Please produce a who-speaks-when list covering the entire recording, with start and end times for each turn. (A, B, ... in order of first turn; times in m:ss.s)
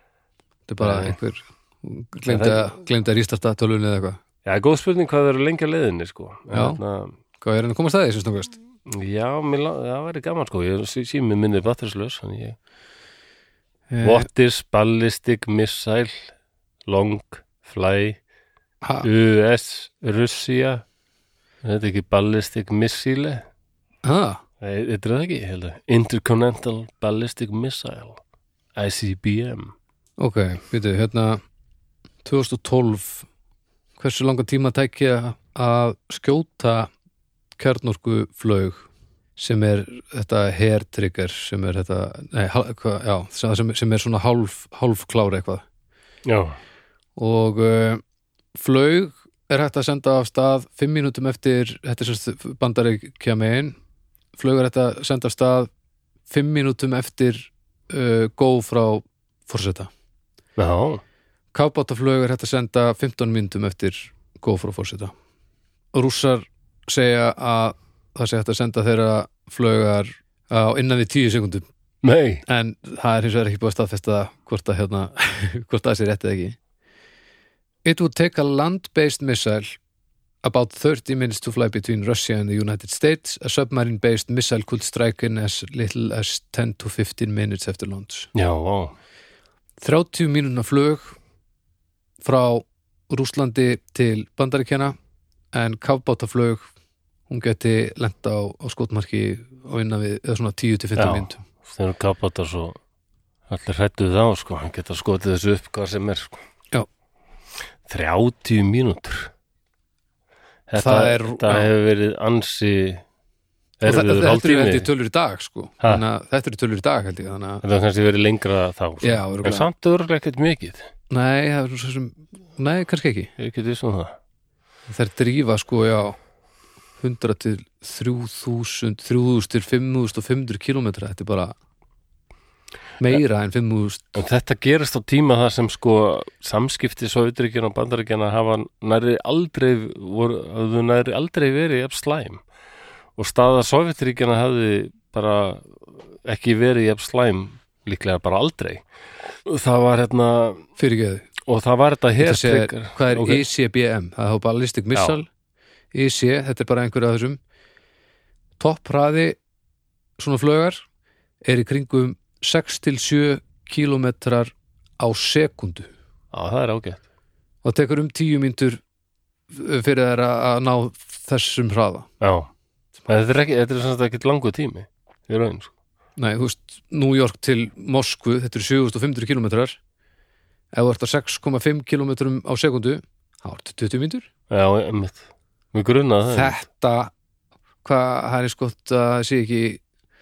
0:00.7-0:04.2 A
0:00.8-0:01.2 B
0:02.3-0:02.6 B
0:04.4-0:07.1 B
0:06.5-0:06.8 A
0:07.4-0:08.6 A
0:08.9-0:12.6 B
0:13.9-0:14.3 A
0:14.0-0:16.3 B
0:16.9-0:18.2 B
0:18.8-0:19.1 A
0:19.0-0:20.8 B
0:21.6-0:23.4 B
0:24.0-0:24.4 A
0:24.6-0:28.2 B
0:28.8-0:29.7 B
0:30.2-0:31.4 A
0:32.2-0:33.3 A
0:34.0-0:36.9 A
0:37.6-0:45.6 A
0:46.2-0:46.6 B
0:47.2-0:48.0 A
0:48.6-0:53.8 A
0:54.4-0:55.7 A
0:56.3-0:59.9 A
1:00.6-1:01.0 B
1:01.5-1:05.1 A
1:05.9-1:11.7 A
1:12.0-1:12.4 B
1:12.5-1:16.6 A
1:17.8-1:19.8 A
1:20.4-1:28.3 A
1:28.3-1:29.0 B
1:29.8-1:31.2 A
1:32.2-1:35.0 A
1:35.5-1:36.7 A
1:37.3-1:41.4 A
1:41.0-1:42.8 B
1:43.5-1:46.4 B
1:47.9-1:49.3 B
1:50.7-1:53.0 B
1:50.8-1:51.7 A
1:53.8-1:54.9 B
1:53.8-1:57.6 A
1:57.6-2:00.9 B
1:59.0-1:59.7 A
2:01.1-2:03.3 A
2:03.4-2:04.2 B
2:04.9-2:06.2 A
2:07.0-2:11.5 A
2:13.0-2:14.1 A
2:14.1-2:22.4 B
2:23.2-2:28.8 B
2:29.4-2:30.6 B
2:30.8-2:31.3 A
2:31.5-2:33.4 B
2:32.2-2:35.3 A
2:35.9-2:37.4 A
2:38.6-2:39.4 A
2:40.2-2:40.8 A
2:41.4-2:45.9 A
2:46.3-2:47.0 B
2:47.6-2:48.8 A
2:49.5-2:52.1 A
2:52.2-2:52.5 B
2:53.1-2:55.7 B
2:56.2-2:59.8 A
3:00.7-3:04.3 A
3:04.5-3:06.6 B
3:06.3-3:07.1 A
3:07.8-3:09.8 A